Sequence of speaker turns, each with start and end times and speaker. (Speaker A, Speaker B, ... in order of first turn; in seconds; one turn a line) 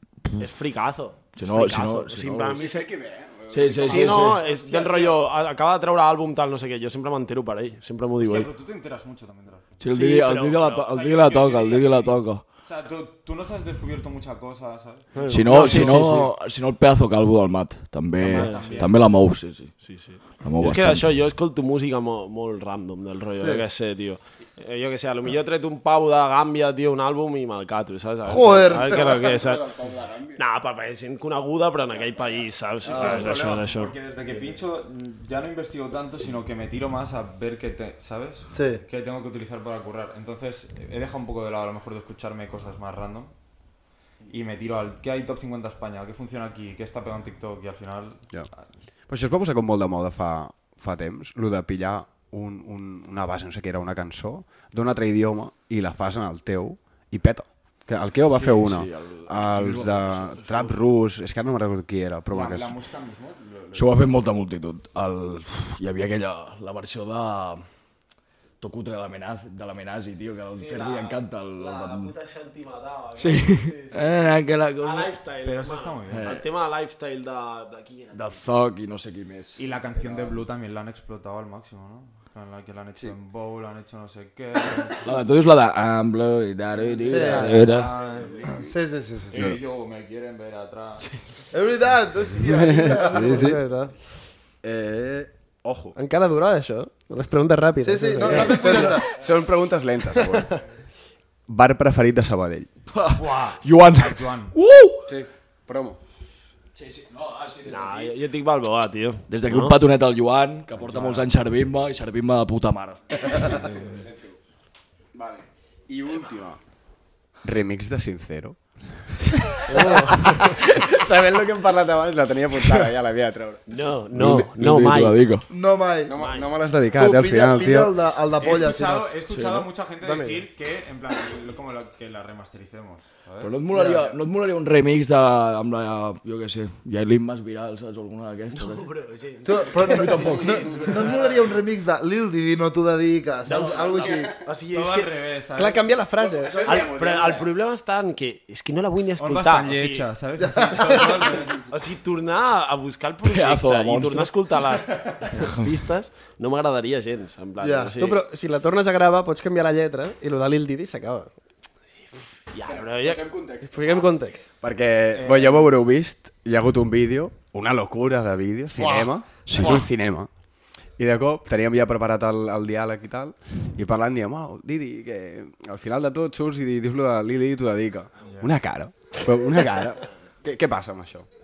Speaker A: 0.4-2.9
Speaker B: 1.3-2.6
Speaker C: 2.4-5.0
Speaker B: 3.5-4.4
Speaker A: 3.7-8.5
Speaker D: 8.2-9.8
Speaker B: 9.8-12.4
Speaker A: 9.9-11.1
Speaker D: 10.7-12.1
Speaker D: 12.6-16.1
Speaker E: 15.1-15.8
Speaker A: 15.2-16.3
Speaker B: 15.3-21.1
Speaker A: 18.2-19.0
Speaker D: 18.3-18.9
Speaker E: 18.3-18.8
Speaker A: 19.8-29.7
Speaker F: 23.4-23.6
Speaker F: 28.3-29.2
Speaker C: 28.7-30.4
Speaker A: 30.3-33.9
Speaker D: 32.8-43.3
Speaker C: 32.9-33.2
Speaker F: 38.5-38.8
Speaker D: 44.3-48.3
Speaker C: 49.1-62.8
Speaker B: 58.2-60.5
Speaker D: 62.3-64.2
Speaker B: 63.7-67.6
Speaker B: 68.6-72.1
Speaker A: 70.5-78.4
Speaker B: 73.2-75.1
Speaker D: 75.4-76.4
Speaker B: 76.1-76.5
Speaker B: 78.1-79.6
Speaker D: 79.6-85.1
Speaker B: 85.0-87.9
Speaker D: 86.8-88.7
Speaker F: 87.1-87.6
Speaker E: 87.2-87.7
Speaker A: 87.6-88.6
Speaker F: 88.7-89.5
Speaker D: 89.3-91.2
Speaker C: 89.3-89.6
Speaker F: 91.5-93.5
Speaker B: 92.5-93.5
Speaker E: 92.9-93.9
Speaker C: 93.2-93.5
Speaker C: 94.6-95.9
Speaker E: 95.9-99.0
Speaker F: 97.8-99.1
Speaker C: 98.2-100.6
Speaker C: 101.5-102.7
Speaker B: 102.9-105.0
Speaker D: 103.2-104.5
Speaker A: 103.2-103.5
Speaker C: 105.1-106.0
Speaker B: 106.7-108.1
Speaker A: 107.6-109.8
Speaker B: 109.3-113.6
Speaker C: 110.8-111.2
Speaker C: 113.3-114.4
Speaker C: 115.1-116.6
Speaker C: 117.4-119.2
Speaker E: 119.7-120.5
Speaker C: 119.7-123.8
Speaker A: 123.7-125.3
Speaker B: 124.1-125.5
Speaker F: 125.5-126.1
Speaker C: 126.0-128.0
Speaker A: 126.1-126.5
Speaker F: 126.9-129.1
Speaker D: 128.4-133.5
Speaker E: 129.3-130.4
Speaker B: 133.4-138.9
Speaker F: 133.7-134.1
Speaker A: 138.5-141.6
Speaker F: 139.4-144.4
Speaker B: 139.9-140.6
Speaker A: 143.4-145.1
Speaker C: 144.0-144.4
Speaker D: 144.7-145.9
Speaker E: 145.6-146.8
Speaker C: 146.2-147.5
Speaker A: 146.5-150.1
Speaker D: 149.2-151.7
Speaker F: 150.4-151.2
Speaker A: 151.7-158.2
Speaker B: 153.2-154.6
Speaker B: 155.3-155.7
Speaker F: 157.6-157.9
Speaker E: 158.0-161.3
Speaker A: 162.5-163.3
Speaker C: 162.6-170.3
Speaker E: 163.6-164.5
Speaker D: 165.1-165.7
Speaker B: 169.4-169.9
Speaker C: 171.0-181.3